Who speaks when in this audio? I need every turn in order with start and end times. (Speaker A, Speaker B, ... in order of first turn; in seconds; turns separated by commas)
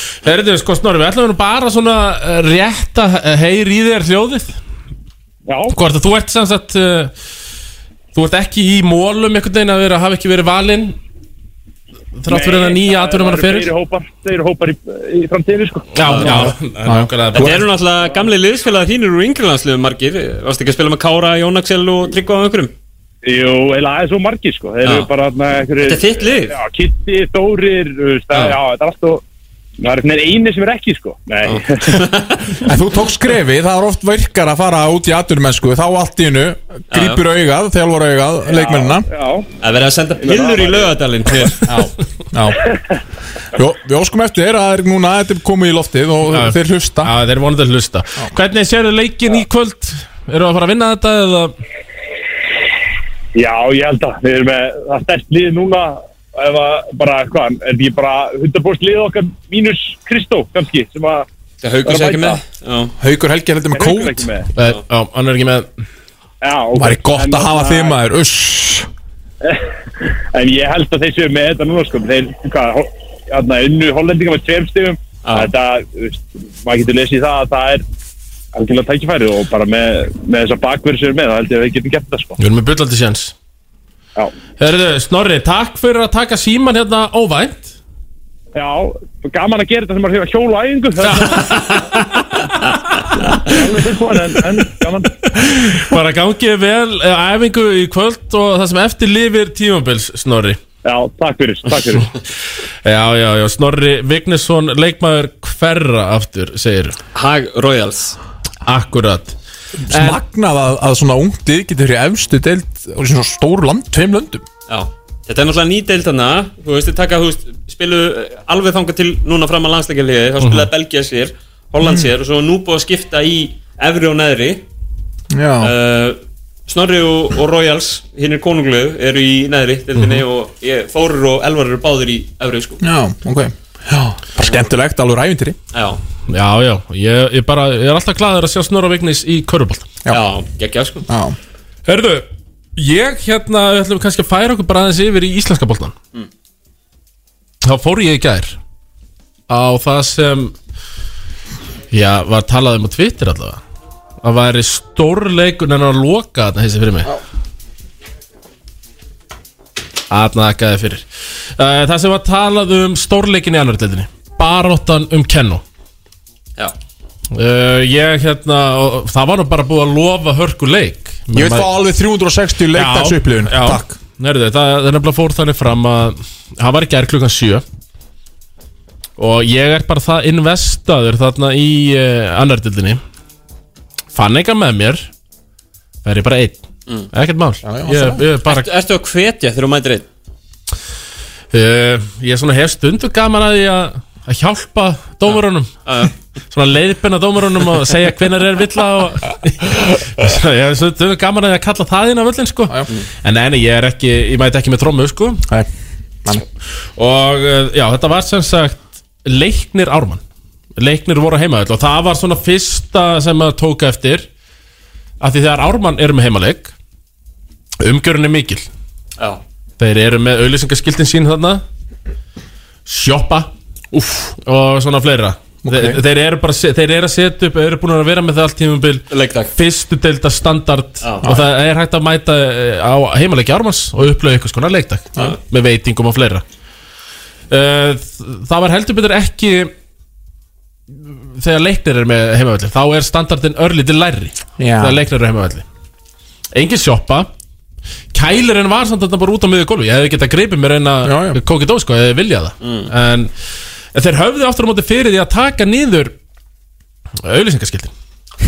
Speaker A: 0.2-4.6, Speaker B: 5.5-5.7, Speaker A: 5.7-7.1, Speaker A: 8.1-10.9, Speaker A: 12.2-13.7, Speaker B: 12.3-16.4, Speaker A: 15.9-17.6, Speaker C: 16.1-16.4, Speaker D: 16.8-17.5, Speaker C: 17.3-22.7, Speaker B: 23.2-29.2, Speaker C: 24.8-25.1, Speaker C: 25.8-26.6, Speaker C: 28.3-28.6, Speaker B: 29.8-32.0, Speaker C: 31.4-32.4, Speaker D: 32.6-39.1, Speaker C: 36.9-37.2, Speaker B: 38.5-39.5, Speaker C: 39.6-41.6, Speaker B: 40.2-40.9, Speaker D: 41.6-42.6, Speaker D: 43.5-47.1, Speaker A: 46.3-51.5, Speaker B: 53.4-61.3, Speaker C: 61.6-62.9, Speaker B: 61.8-62.4, Speaker D: 63.0-64.3, Speaker B: 63.7-64.5, Speaker A: 64.6-65.7, Speaker B: 66.4-68.0, Speaker D: 66.8-68.9, Speaker B: 69.4-77.8, Speaker C: 75.2-75.5, Speaker B: 78.5-82.4, Speaker A: 82.4-83.3, Speaker A: 84.6-87.7, Speaker B: 88.5-91.6, Speaker A: 91.1-91.8, Speaker B: 93.4-95.1, Speaker A: 95.4-100.6, Speaker B: 100.8-102.1, Speaker A: 102.8-107.0, Speaker C: 107.1-108.2, Speaker A: 108.7-109.3, Speaker D: 109.9-114.4, Speaker A: 109.9-110.2, Speaker C: 114.7-124.6, Speaker A: 120.4-120.7, Speaker D: 121.8-122.1, Speaker D: 125.3-125.7, Speaker C: 125.6-132.8, Speaker A: 130.0-130.2, Speaker D: 132.8-135.6, Speaker C: 134.4-134.7, Speaker C: 135.7-136.0, Speaker A: 136.3-139.9, Speaker C: 140.1-141.1, Speaker D: 141.1-141.3, Speaker A: 141.9-145.9, Speaker A: 147.6-148.6, Speaker A: 149.5-150.5, Speaker A: 151.9-153.6, Speaker A: 154.2-157.1, Speaker A: 160.1-161.1, Speaker A: 161.6-165.6, Speaker A: 167.3-171.7, Speaker D: 171.3-173.9, Speaker A: 172.7-177.6, Speaker A: 179.2-183.0, Speaker A: 184.1-185.1, Speaker A: 186.1-186.6, Speaker A: 187.1-188.7, Speaker D: 187.6-188.2, Speaker C: 188.4-190.1, Speaker A: 191.5-195.7, Speaker C: 195.3-196.1, Speaker A: 196.5-205.4, Speaker A: 207.0-210.2, Speaker A: 210.8-214.3, Speaker A: 215.2-216.7, Speaker A: 217.8-218.6, Speaker A: 219.8-221.6, Speaker A: 222.8-236.4, Speaker D: 225.6-226.0, Speaker C: 229.1-229.5, Speaker A: 237.5-239.7, Speaker A: 240.9-245.6, Speaker D: 244.6-245.0, Speaker A: 246.5-247.3, Speaker A: 248.1-253.3, Speaker D: 251.0-251.4, Speaker C: 252.6-252.9, Speaker A: 253.9-256.1, Speaker A: 257.2-257.9